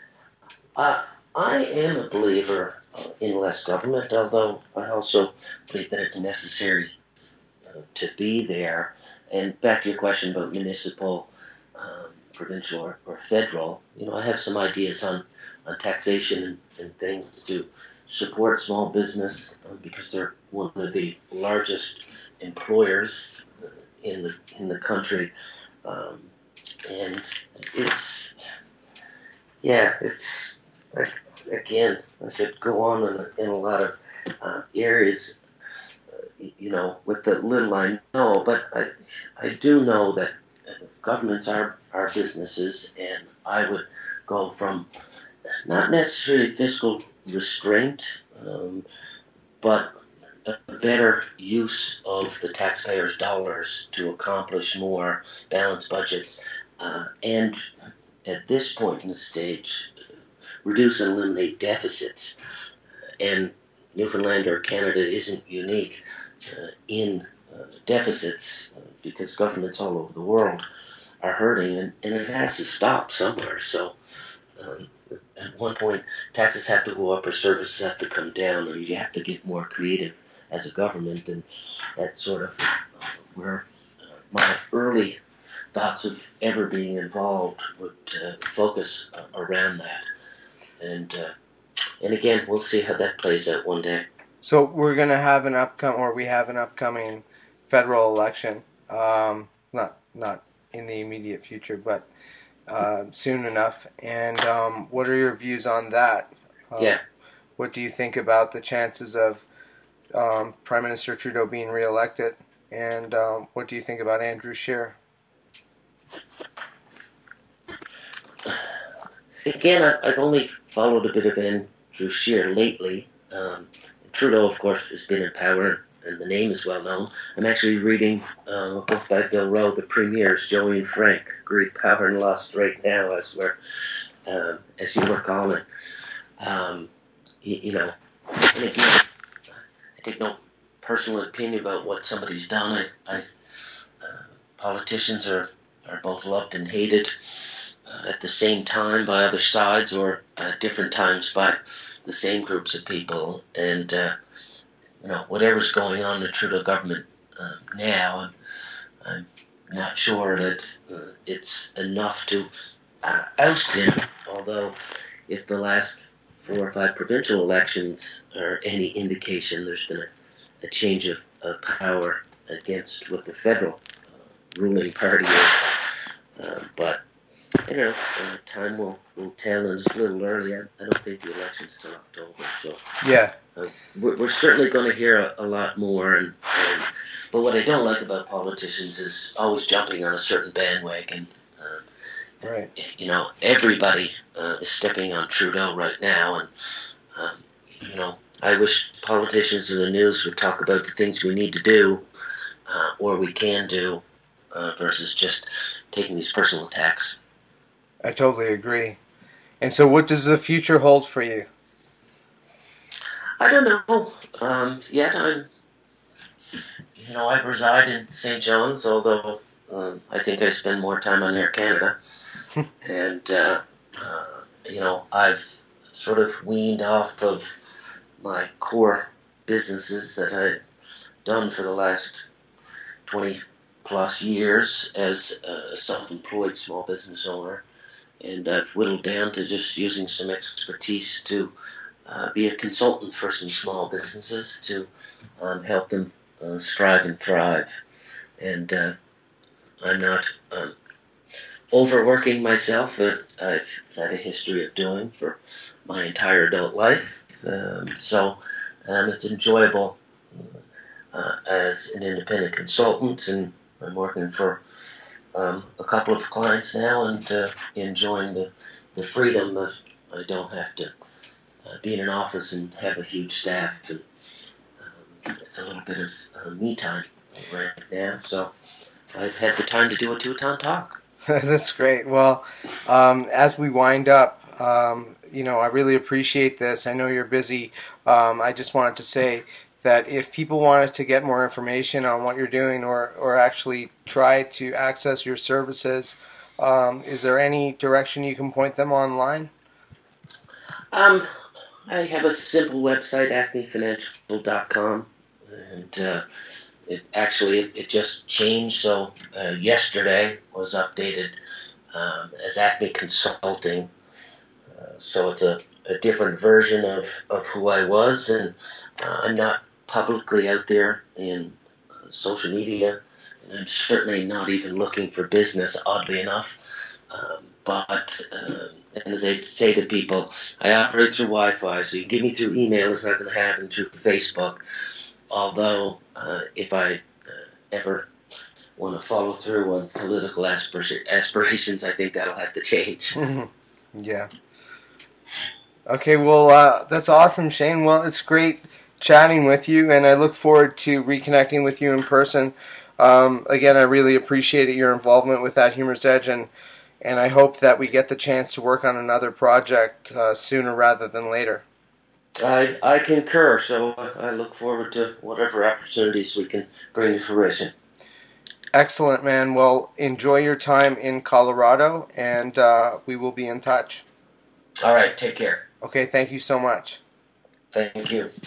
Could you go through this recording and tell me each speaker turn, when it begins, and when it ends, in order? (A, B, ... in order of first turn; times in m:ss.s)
0:00.8-0:06.9 A
0:07.7-0:25.3 A
0:25.8-0:26.3 A
0:26.9-0:28.3 A
0:29.6-0:35.4 A
0:36.1-0:44.9 A
0:45.6-0:48.8 A
0:49.6-0:49.9 A
0:50.4-0:57.6 A
0:58.2-0:59.9 A
1:00.6-1:02.3 A
1:03.2-1:10.6 A
1:11.2-1:14.0 A
1:14.6-1:21.4 A
1:22.0-1:25.2 A
1:25.7-1:30.0 A
1:30.8-1:31.3 A
1:32.0-1:34.0 A
1:34.4-1:42.0 B
1:42.7-1:47.0 B
1:47.6-1:49.4 B
1:50.1-1:55.0 B
1:58.4-1:58.7 A
1:59.5-2:15.6 A
2:16.4-2:16.9 A
2:17.4-2:17.9 A
2:18.5-2:19.1 A
2:20.0-2:34.1 A
2:35.0-2:42.5 A
2:43.0-2:44.8 A
2:45.3-2:50.1 A
2:50.6-2:53.8 A
2:54.5-2:57.0 A
2:57.7-3:02.8 A
3:03.0-3:03.3 B
3:03.6-3:11.8 A
3:12.4-3:22.0 A
3:12.4-3:12.7 B
3:22.7-3:24.0 A
3:24.5-3:27.2 A
3:28.0-3:29.0 B
3:29.6-3:31.5 B
3:33.4-3:35.5 A
3:36.5-3:50.6 A
3:51.2-3:52.3 A
3:53.0-3:57.6 A
3:58.2-4:01.5 A
4:02.0-4:07.7 A
4:08.4-4:08.9 A
4:09.8-4:10.7 A
4:11.7-4:20.6 A
4:21.1-4:30.9 A
4:31.6-4:34.0 A
4:34.8-4:38.5 A
4:39.1-4:41.0 A
4:41.3-4:59.5 B
5:00.9-5:01.2 A
5:01.9-5:11.3 A
5:11.9-5:13.9 A
5:14.7-5:38.1 A
5:38.8-5:43.2 A
5:43.2-5:44.3 B
5:45.9-5:56.5 B
5:57.0-6:01.6 B
6:02.4-6:07.7 A
6:08.7-6:14.0 B
6:14.8-6:15.6 A
6:15.8-6:17.0 B
6:17.7-6:18.3 A